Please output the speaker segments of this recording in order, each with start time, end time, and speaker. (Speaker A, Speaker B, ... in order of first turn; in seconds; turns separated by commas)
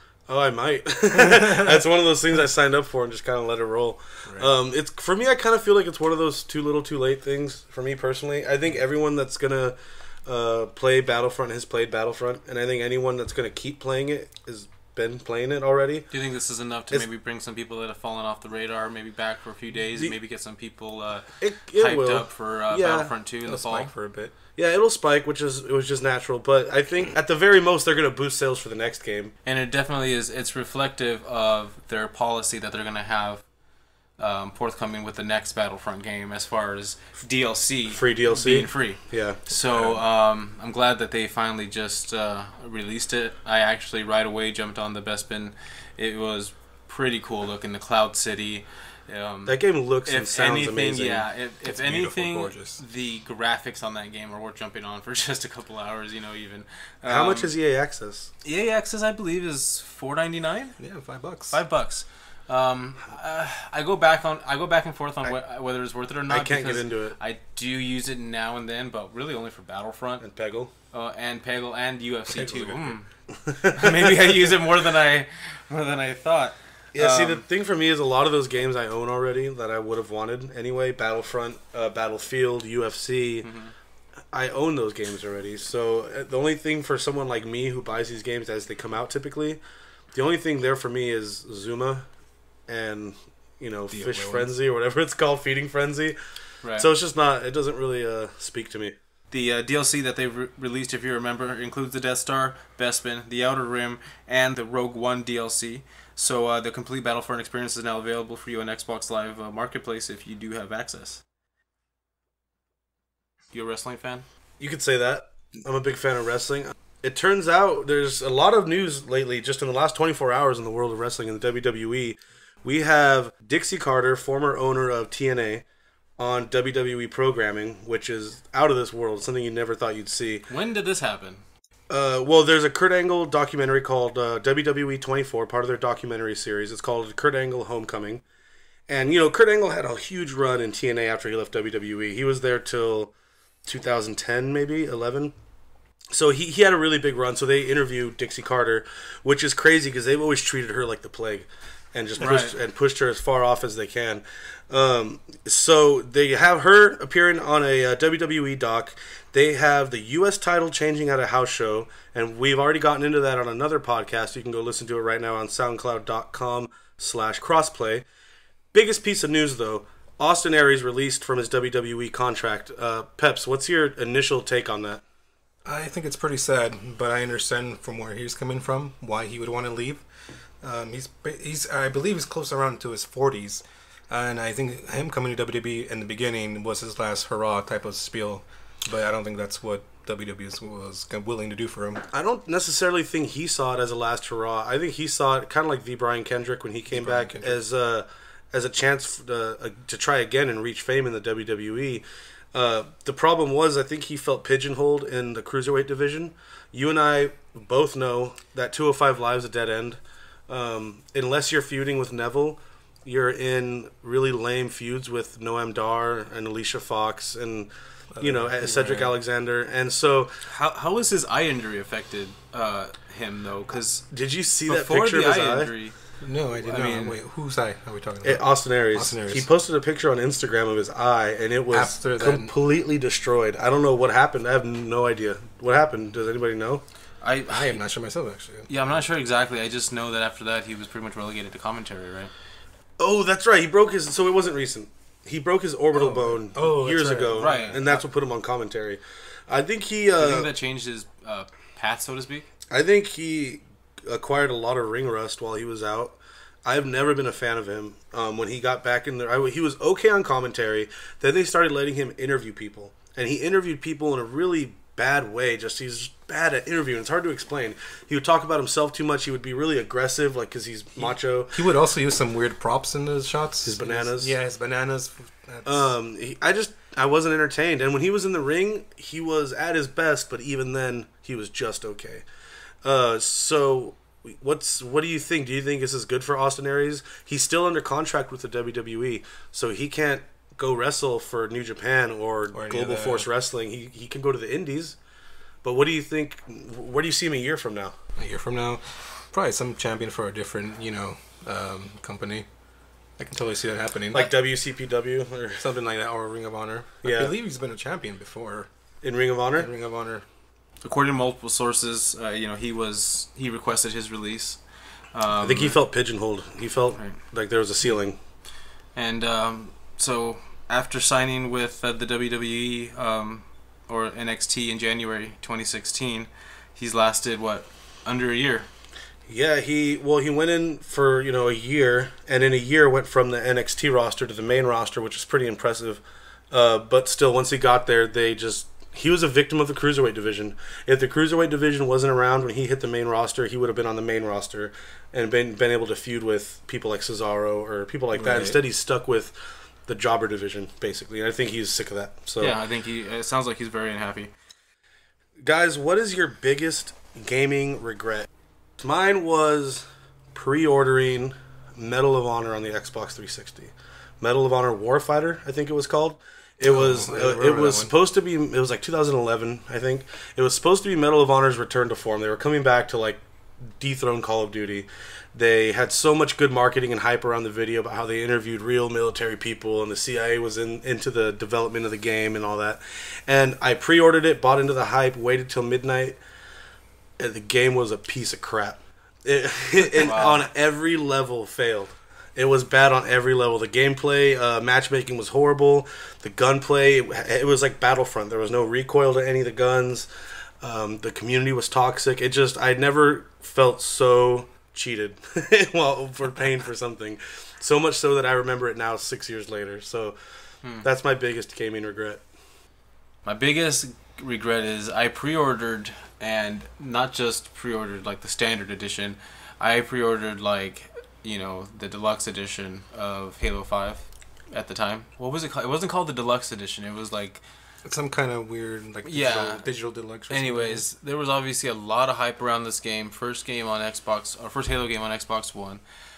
Speaker A: 0.3-16.1, Speaker B: 1.2-1.8, Speaker C: 16.1-23.9, Speaker A: 21.4-23.1, Speaker B: 23.4-24.3, Speaker A: 24.6-29.3, Speaker C: 29.4-33.4, Speaker C: 34.2-57.5, Speaker A: 37.9-39.4, Speaker B: 39.7-40.0, Speaker A: 49.5-51.3, Speaker B: 51.6-52.8, Speaker A: 57.0-58.3, Speaker C: 58.4-60.8, Speaker B: 60.8-61.6, Speaker C: 61.5-70.2, Speaker A: 66.3-67.2, Speaker A: 70.2-70.7, Speaker C: 70.9-73.1, Speaker B: 72.3-73.0, Speaker A: 73.4-74.1, Speaker C: 73.6-77.4, Speaker A: 76.9-83.5, Speaker C: 83.4-83.7, Speaker A: 84.3-89.6, Speaker A: 90.1-92.1, Speaker A: 92.7-96.2, Speaker B: 93.9-94.5, Speaker C: 96.6-96.9, Speaker A: 96.8-99.0, Speaker C: 99.3-111.2, Speaker C: 113.5-114.2, Speaker A: 114.6-125.6, Speaker A: 126.2-130.5, Speaker C: 130.5-131.4, Speaker A: 131.9-138.2, Speaker A: 138.9-143.2, Speaker A: 143.7-145.3, Speaker A: 146.1-168.1, Speaker C: 152.2-152.6, Speaker A: 168.7-175.0, Speaker B: 175.7-180.1, Speaker B: 180.6-192.1, Speaker A: 192.1-220.4, Speaker B: 196.9-197.6, Speaker B: 218.2-219.2, Speaker C: 220.5-224.1, Speaker A: 224.1-225.7, Speaker C: 224.7-226.0, Speaker B: 226.2-229.5, Speaker C: 226.5-227.2, Speaker A: 228.2-236.8, Speaker B: 231.7-232.5, Speaker C: 237.2-237.8, Speaker B: 237.5-238.7, Speaker C: 238.7-242.3, Speaker A: 243.0-250.5, Speaker B: 245.9-248.0, Speaker C: 247.3-247.9, Speaker C: 250.2-252.5, Speaker A: 252.7-271.6, Speaker B: 271.0-275.9, Speaker A: 273.6-274.3, Speaker A: 275.7-282.2, Speaker A: 282.8-295.0, Speaker B: 292.5-293.3, Speaker A: 295.6-298.0, Speaker B: 298.2-302.5, Speaker B: 303.2-304.3, Speaker A: 304.1-305.7, Speaker B: 305.6-308.7, Speaker A: 307.0-307.3, Speaker A: 309.0-309.7, Speaker B: 309.6-310.2, Speaker C: 310.8-314.6, Speaker C: 315.1-315.8, Speaker A: 315.4-318.2, Speaker C: 318.9-328.7, Speaker A: 329.3-352.6, Speaker B: 348.1-348.6, Speaker C: 352.4-354.3, Speaker A: 355.4-373.2, Speaker B: 366.6-367.9, Speaker A: 373.8-386.2, Speaker A: 387.2-400.1, Speaker C: 390.0-390.4, Speaker A: 400.6-410.2, Speaker A: 410.8-412.2, Speaker C: 413.2-427.4, Speaker B: 427.8-430.9, Speaker C: 429.1-429.6, Speaker C: 430.3-435.8